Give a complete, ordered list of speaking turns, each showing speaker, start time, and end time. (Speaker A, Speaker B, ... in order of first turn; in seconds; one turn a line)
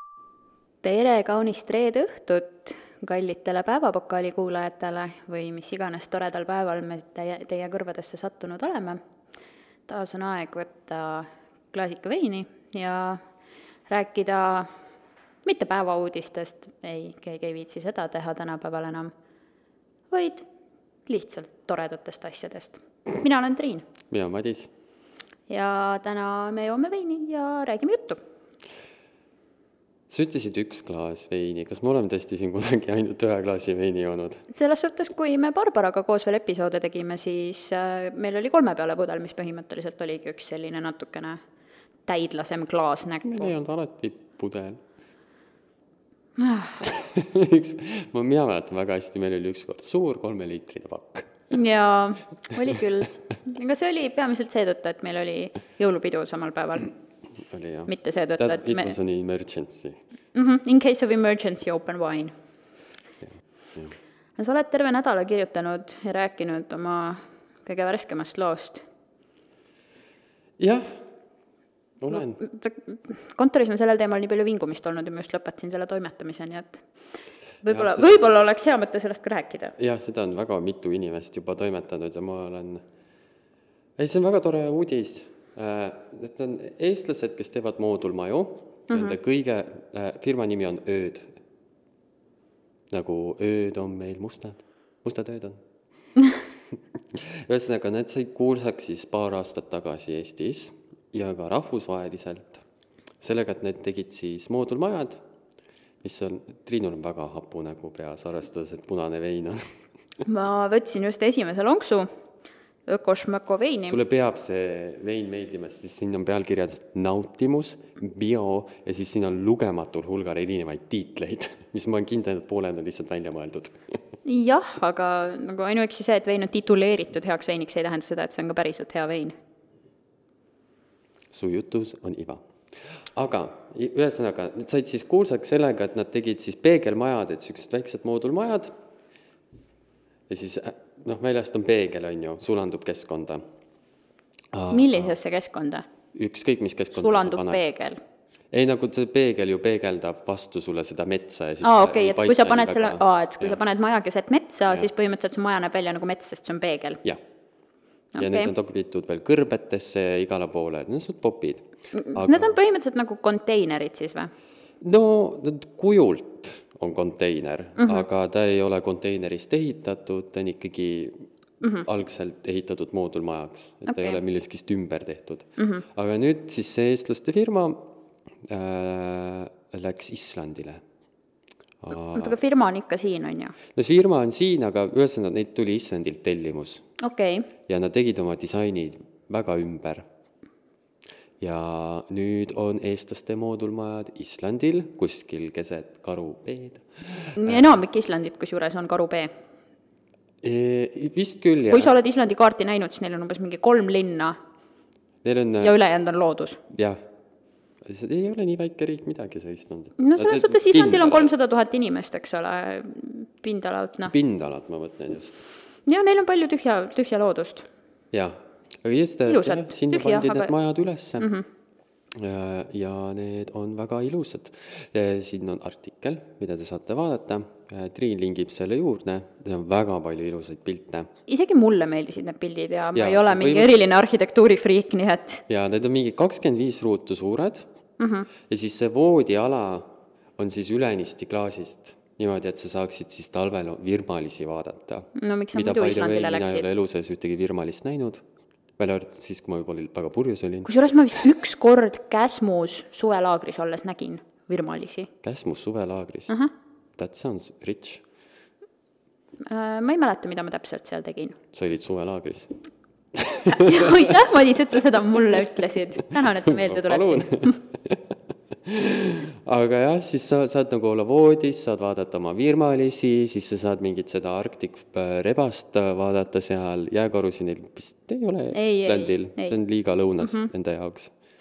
Speaker A: 0.8-9.0
Speaker A: 9.9-13.2
Speaker A: 13.9-14.7
Speaker A: 15.4-19.1
Speaker A: 20.1-20.5
Speaker A: 21.1-23.9
Speaker B: 24.1-24.7
Speaker A: 25.5-28.2
Speaker B: 30.1-34.5
Speaker A: 34.5-41.4
Speaker A: 42.1-43.5
Speaker B: 43.2-44.8
Speaker A: 46.4-46.9
Speaker B: 46.8-51.3
Speaker A: 51.5-56.9
Speaker B: 57.5-60.0
Speaker A: 57.9-59.0
Speaker A: 60.3-62.3
Speaker B: 63.2-63.9
Speaker A: 64.4-68.8
Speaker B: 70.6-70.9
Speaker B: 72.0-72.4
Speaker A: 72.1-76.8
Speaker A: 77.6-79.8
Speaker B: 77.7-78.4
Speaker B: 79.8-82.8
Speaker B: 84.0-91.3
Speaker A: 88.9-89.2
Speaker B: 92.9-95.6
Speaker B: 97.1-102.6
Speaker B: 103.2-105.2
Speaker B: 106.0-109.6
Speaker A: 110.2-112.1
Speaker A: 112.9-114.0
Speaker B: 113.9-123.8
Speaker A: 124.2-129.3
Speaker B: 131.3-132.4
Speaker B: 133.2-138.7
Speaker B: 140.3-143.4
Speaker B: 144.5-145.2
Speaker A: 144.7-145.8
Speaker B: 146.2-147.6
Speaker A: 146.9-148.0
Speaker B: 148.5-153.6
Speaker A: 151.6-157.0
Speaker A: 158.1-158.5
Speaker B: 158.2-162.5
Speaker A: 161.9-164.3
Speaker B: 164.8-171.2
Speaker A: 167.8-168.0
Speaker A: 171.6-171.9
Speaker B: 171.8-177.9
Speaker A: 173.9-174.2
Speaker A: 175.6-175.8
Speaker B: 178.5-180.8
Speaker B: 181.8-182.4
Speaker A: 182.1-183.6
Speaker B: 183.8-186.8
Speaker A: 187.0-187.5
Speaker B: 187.7-190.0
Speaker B: 191.4-196.8
Speaker A: 197.4-199.3
Speaker B: 197.4-197.7
Speaker B: 200.4-201.9
Speaker A: 201.7-204.4
Speaker B: 205.2-205.8
Speaker A: 205.6-206.6
Speaker B: 206.7-207.0
Speaker B: 207.9-211.3
Speaker A: 210.0-214.1
Speaker B: 214.0-215.4
Speaker A: 215.9-217.7
Speaker B: 218.1-221.3
Speaker A: 219.3-220.5
Speaker A: 221.2-221.4
Speaker B: 222.2-231.1
Speaker A: 231.3-235.4
Speaker B: 232.9-233.8
Speaker B: 235.5-237.7
Speaker A: 238.0-238.3
Speaker B: 238.5-248.2
Speaker A: 245.2-246.7
Speaker B: 248.8-250.7
Speaker A: 250.7-255.1
Speaker B: 255.2-256.4
Speaker B: 257.0-258.0
Speaker A: 259.5-261.4
Speaker B: 261.5-262.6
Speaker B: 263.1-264.0
Speaker A: 263.5-267.6
Speaker B: 266.3-268.0
Speaker B: 268.6-281.1
Speaker A: 278.5-279.6
Speaker A: 280.2-280.5